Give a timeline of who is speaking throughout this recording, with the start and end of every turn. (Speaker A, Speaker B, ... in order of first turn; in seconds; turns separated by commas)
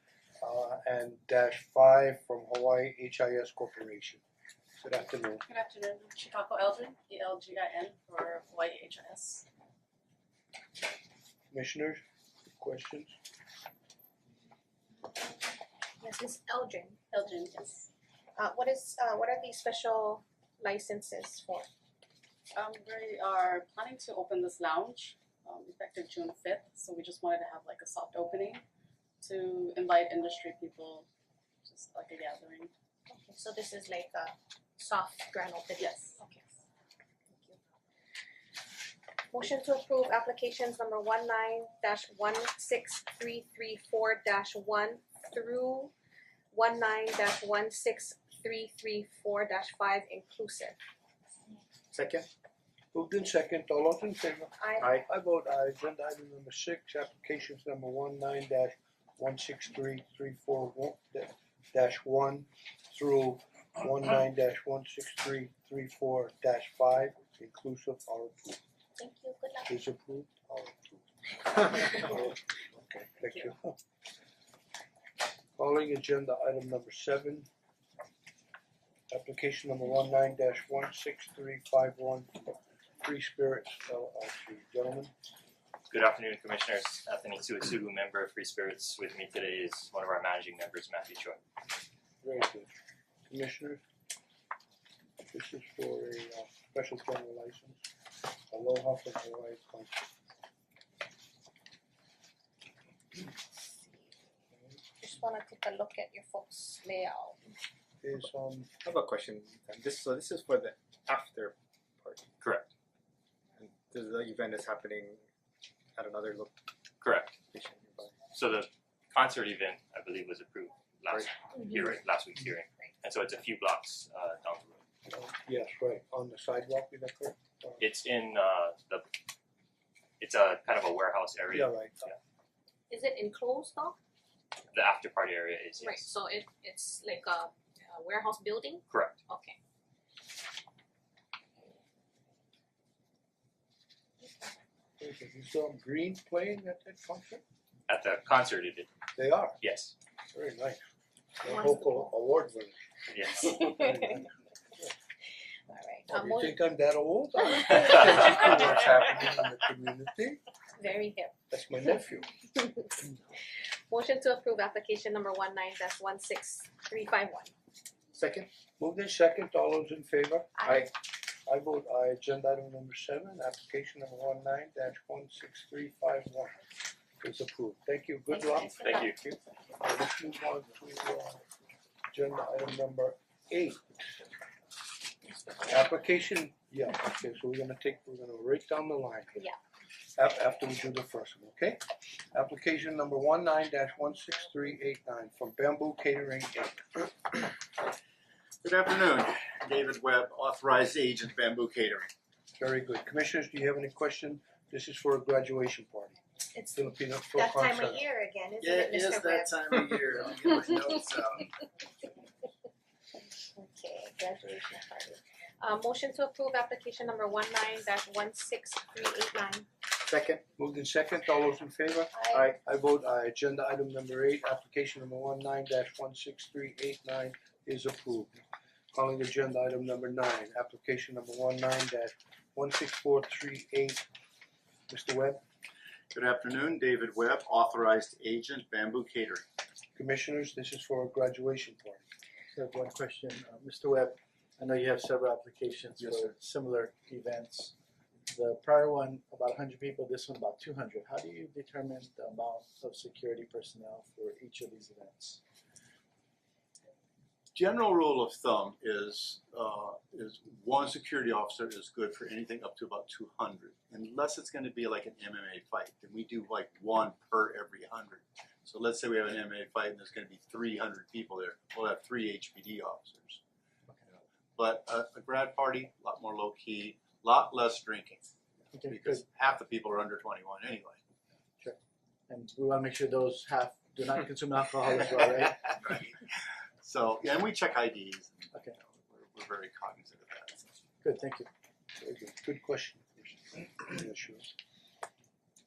Speaker A: 0.4-4.2, Speaker A: 4.8-5.5, Speaker B: 5.5-9.4, Speaker A: 11.5-12.0, Speaker A: 12.6-13.1, Speaker C: 15.0-17.0, Speaker B: 17.1-17.9, Speaker C: 18.4-21.7, Speaker B: 22.5-28.6, Speaker B: 29.2-31.1, Speaker B: 31.6-32.7, Speaker C: 33.1-36.4, Speaker B: 35.8-36.2, Speaker C: 37.3-37.6, Speaker C: 39.3-45.9, Speaker C: 46.5-50.8, Speaker D: 51.9-52.2, Speaker A: 52.9-68.6, Speaker C: 54.6-55.0, Speaker C: 69.0-69.7, Speaker A: 69.7-73.8, Speaker A: 75.6-77.5, Speaker A: 79.1-85.1, Speaker E: 85.9-91.4, Speaker A: 92.2-92.7, Speaker A: 93.3-93.8, Speaker A: 95.3-97.8, Speaker A: 98.5-100.0, Speaker C: 105.0-107.4, Speaker A: 108.0-108.7, Speaker D: 108.8-112.3, Speaker E: 112.4-112.7, Speaker D: 113.6-115.2, Speaker D: 115.9-116.6, Speaker E: 117.0-117.4, Speaker D: 117.5-118.1, Speaker E: 118.3-124.8, Speaker C: 121.5-121.9, Speaker A: 125.1-127.8, Speaker E: 127.8-129.0, Speaker E: 130.2-132.2, Speaker A: 131.5-132.1, Speaker C: 132.9-133.9, Speaker E: 134.7-136.1, Speaker C: 135.8-139.6, Speaker E: 138.9-139.2, Speaker A: 145.0-147.4, Speaker E: 147.9-148.9, Speaker A: 149.1-149.6, Speaker E: 149.6-149.9, Speaker A: 150.3-150.8, Speaker A: 151.4-152.8, Speaker C: 151.4-152.1, Speaker E: 153.1-153.5, Speaker C: 153.4-154.2, Speaker A: 153.6-154.3, Speaker C: 155.7-156.6, Speaker A: 156.1-160.4, Speaker C: 160.8-161.3, Speaker A: 161.5-162.3, Speaker C: 162.5-162.9, Speaker C: 163.9-167.5, Speaker D: 168.1-168.5, Speaker A: 168.8-170.6, Speaker C: 170.6-170.9, Speaker D: 170.6-170.9, Speaker A: 171.4-176.6, Speaker A: 177.2-178.8, Speaker C: 178.3-179.4, Speaker E: 178.8-179.2, Speaker A: 179.8-181.4, Speaker A: 182.1-184.2, Speaker A: 185.6-189.4, Speaker A: 190.2-191.8, Speaker A: 192.3-197.4, Speaker F: 198.6-202.1, Speaker A: 202.6-206.2, Speaker C: 206.5-209.7, Speaker A: 206.7-208.0, Speaker F: 208.6-211.5, Speaker C: 213.4-219.7, Speaker D: 220.1-220.4, Speaker A: 220.6-228.4, Speaker C: 222.1-222.6, Speaker A: 228.9-234.0, Speaker A: 234.9-235.4, Speaker F: 236.1-239.4, Speaker A: 239.9-242.0, Speaker G: 242.5-247.7, Speaker F: 246.0-246.3, Speaker G: 248.3-255.4, Speaker F: 257.5-273.4, Speaker F: 274.6-278.3, Speaker G: 278.7-279.2, Speaker F: 278.8-281.0, Speaker G: 282.3-285.8, Speaker F: 285.7-290.8, Speaker G: 291.0-291.5, Speaker A: 292.0-294.4